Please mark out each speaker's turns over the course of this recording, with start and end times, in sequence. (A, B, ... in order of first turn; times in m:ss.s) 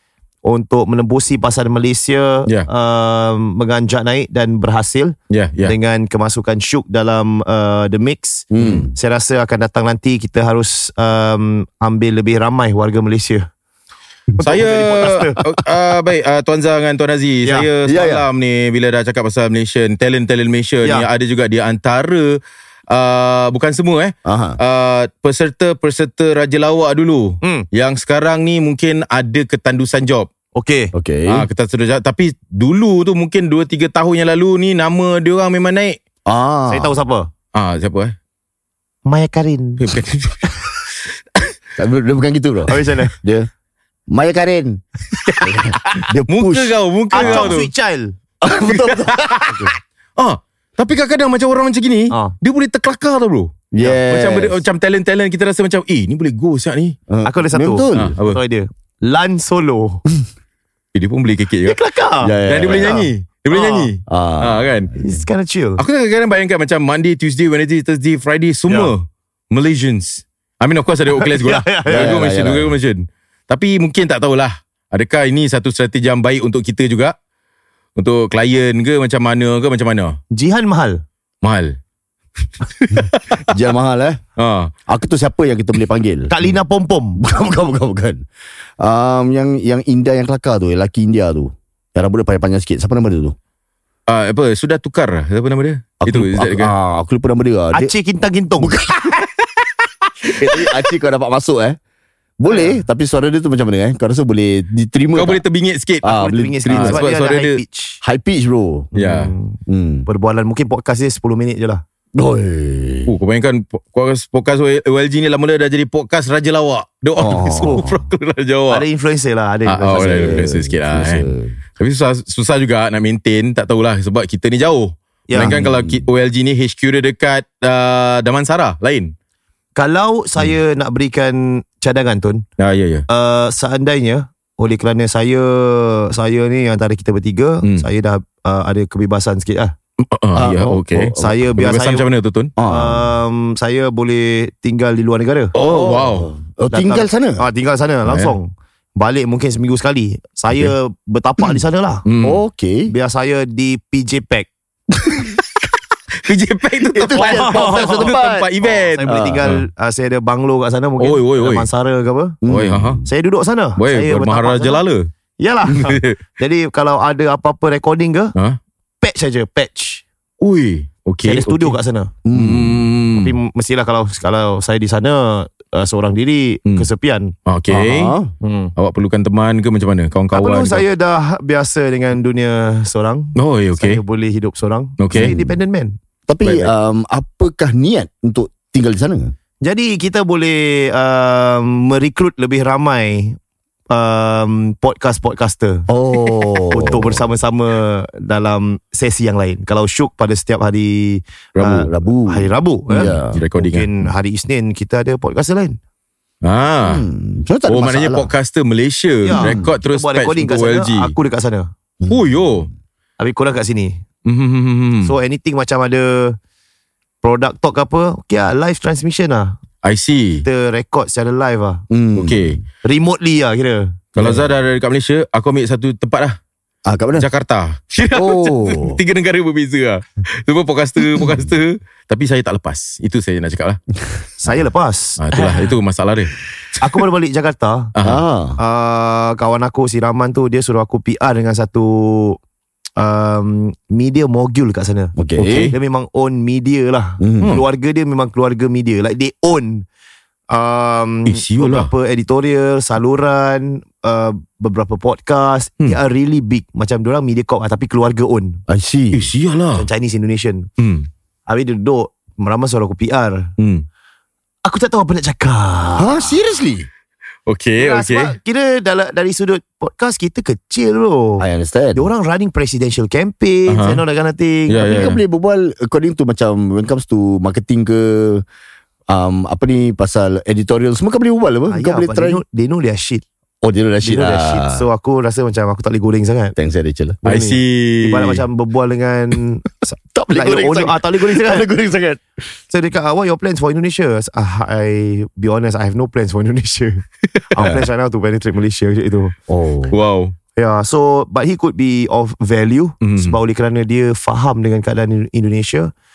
0:00.4-0:13.5 A
0:05.3-0:05.7 B
0:08.5-0:08.9 C
0:08.6-0:08.9 B
0:14.3-0:15.4 A
0:14.4-0:30.3 B
0:17.8-0:18.2 C
0:24.2-0:24.6 C
0:30.6-0:30.9 A
0:30.9-0:31.5 C
0:31.3-0:36.0 B
0:36.2-0:37.0 C
0:36.7-0:37.3 A
0:37.5-0:38.1 B
0:39.0-0:39.8 A
0:39.8-0:40.4 B
0:41.8-0:43.5 C
0:42.7-0:43.2 A
0:44.1-0:44.8 C
0:45.4-0:47.5 C
0:46.3-0:47.7 B
0:47.1-0:48.1 A
0:48.4-0:49.7 C
0:49.4-0:49.7 A
0:50.2-0:57.0 B
0:53.7-0:54.6 C
0:57.1-0:58.2 C
0:57.2-1:00.0 A
0:57.9-0:58.4 B
1:00.9-1:01.8 B
1:01.6-1:02.3 A
1:02.2-1:03.1 C
1:02.4-1:04.9 B
1:03.5-1:03.9 A
1:04.1-1:05.0 C
1:05.0-1:05.8 A
1:05.8-1:17.1 B
1:08.7-1:08.9 A
1:11.1-1:12.2 A
1:11.9-1:12.7 C
1:18.0-1:20.2 B
1:20.3-1:21.0 A
1:21.4-1:21.8 B
1:22.8-1:23.4 B
1:22.9-1:24.2 C
1:24.4-1:24.7 B
1:24.9-1:26.4 C
1:26.3-1:27.2 A
1:27.2-1:28.2 C
1:28.8-1:33.3 C
1:34.1-1:36.7 B
1:36.0-1:37.9 C
1:37.7-1:38.7 A
1:38.6-1:39.2 C
1:40.2-1:41.8 C
1:42.4-1:45.4 C
1:42.5-1:42.8 A
1:45.2-1:46.1 B
1:46.0-1:47.0 C
1:46.0-1:48.0 A
1:46.6-1:47.6 B
1:48.0-1:48.9 C
1:48.9-1:49.3 B
1:49.0-1:51.8 A
1:49.7-1:50.1 C
1:52.1-1:53.1 C
1:53.1-1:58.8 B
1:57.2-1:58.0 C
1:58.7-2:00.4 A
1:59.7-2:09.1 B
1:59.9-2:01.6 C
2:05.3-2:06.0 C
2:09.8-2:12.4 A
2:12.6-2:13.0 B
2:13.1-2:19.7 A
2:20.0-2:22.5 B
2:20.3-2:21.4 C
2:21.2-2:22.0 A
2:22.6-2:23.1 C
2:22.6-2:25.5 A
2:25.5-2:26.3 B
2:25.6-2:27.4 C
2:26.7-2:32.0 A
2:28.1-2:28.4 B
2:32.0-2:32.4 B
2:32.2-2:32.9 C
2:32.9-2:34.5 A
2:36.2-2:39.6 B
2:36.9-2:38.5 C
2:37.1-2:42.4 A
2:39.0-2:39.5 C
2:41.0-2:41.7 B
2:42.4-2:43.0 C
2:42.5-2:43.0 B
2:43.0-2:44.8 A
2:43.8-2:45.1 B
2:45.4-2:48.3 A
2:45.7-2:46.2 B
2:49.0-2:50.0 A
2:50.4-2:51.8 B
2:51.2-2:52.1 A
2:52.2-2:52.9 C
2:52.3-2:53.3 B
2:53.1-2:57.3 A
2:57.4-2:58.1 B
2:57.7-2:58.3 C
2:58.4-2:58.7 A
2:58.8-3:00.8 B
3:00.3-3:06.0 A
3:03.4-3:04.0 B
3:05.0-3:05.3 B
3:05.1-3:05.5 C
3:06.3-3:09.3 C
3:06.4-3:06.7 B
3:09.6-3:13.4 A
3:13.9-3:15.9 A
3:15.9-3:17.2 C
3:16.7-3:25.8 A
3:21.6-3:21.9 B
3:21.8-3:23.4 C
3:22.9-3:23.9 B
3:26.4-3:27.0 B
3:26.8-3:28.3 C
3:27.7-3:31.1 B
3:29.2-3:31.7 A
3:29.4-3:29.7 C
3:32.1-3:32.7 B
3:33.2-3:34.0 A
3:34.2-3:35.1 B
3:35.0-3:36.4 A
3:37.2-3:39.6 A
3:39.8-3:40.4 B
3:40.4-3:41.8 A
3:41.9-3:42.6 C
3:42.2-3:42.6 B
3:42.8-3:44.0 A
3:44.1-3:46.4 B
3:44.2-3:44.5 C
3:46.8-3:47.3 C
3:47.2-3:53.8 B
3:48.1-3:49.0 C
3:54.4-3:55.7 A
3:55.2-3:56.3 B
3:56.8-3:57.9 A
3:57.9-3:58.2 B
3:58.0-3:58.6 C
3:58.6-4:02.4 A
4:03.0-4:05.1 A
4:05.2-4:05.7 C
4:05.4-4:05.7 B
4:05.7-4:09.8 A
4:07.2-4:07.6 C
4:10.5-4:18.6 A
4:11.3-4:11.9 B
4:18.7-4:19.3 C
4:19.1-4:19.9 B
4:19.7-4:20.7 A
4:20.8-4:21.1 B
4:21.5-4:23.5 A
4:23.6-4:23.8 B
4:24.6-4:26.3 A
4:26.0-4:26.9 C
4:27.5-4:28.3 B
4:27.8-4:35.1 A
4:31.4-4:32.0 C
4:33.7-4:34.0 B
4:34.7-4:35.2 B
4:34.7-4:38.4 C
4:39.1-4:42.4 C
4:41.7-4:43.2 A
4:43.6-4:44.8 C
4:44.0-4:46.6 A
4:46.6-4:47.2 C
4:47.2-4:51.7 A
4:47.2-4:48.4 B
4:50.1-4:52.2 C
4:52.7-4:59.3 A
4:57.4-4:57.8 B
4:59.5-4:59.9 C
4:59.9-5:00.3 B
5:00.6-5:05.9 A
5:03.0-5:03.4 B